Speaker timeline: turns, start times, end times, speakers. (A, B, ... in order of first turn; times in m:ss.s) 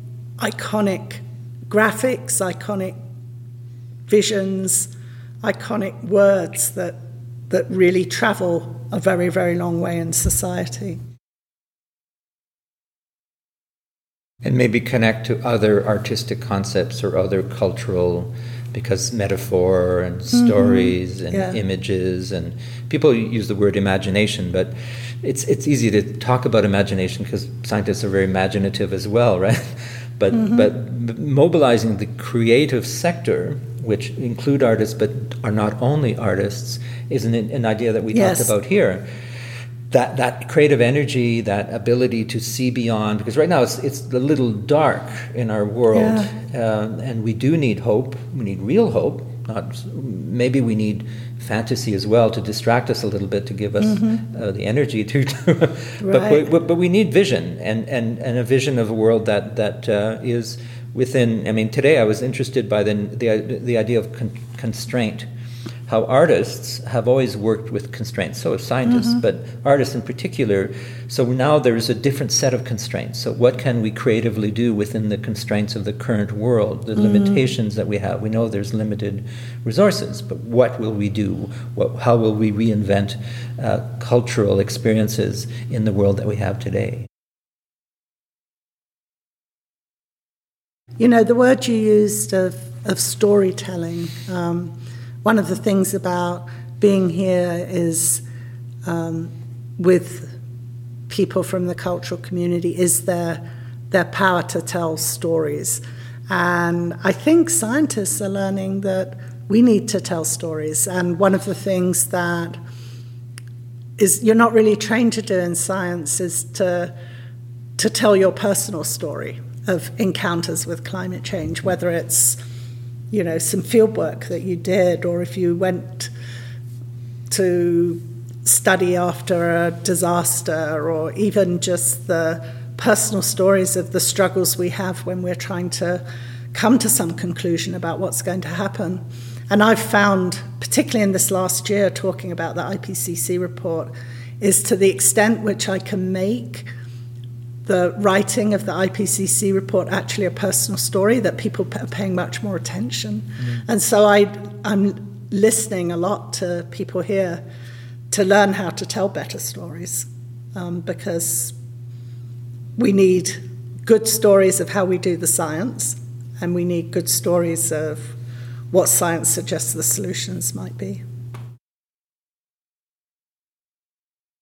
0:00.4-0:03.0 A
0:04.1-0:04.9 A
0:05.4-0:07.0 A
0:07.5-0:11.0 A
0:14.4-0:39.1 B
0:20.6-0:21.6 A
0:30.3-0:30.7 A
0:38.1-0:38.5 A
0:39.9-1:05.3 B
0:45.9-0:46.3 A
0:56.0-0:56.5 A
1:05.9-1:27.1 B
1:31.0-1:38.2 A
1:38.8-1:40.3 A
1:41.1-1:52.6 A
1:54.0-1:56.9 A
1:57.8-2:02.4 A
2:03.1-2:06.1 A
2:07.3-2:26.7 A
2:27.7-2:37.4 A
2:38.1-2:41.6 A
2:42.8-2:48.1 A
2:48.7-2:51.0 A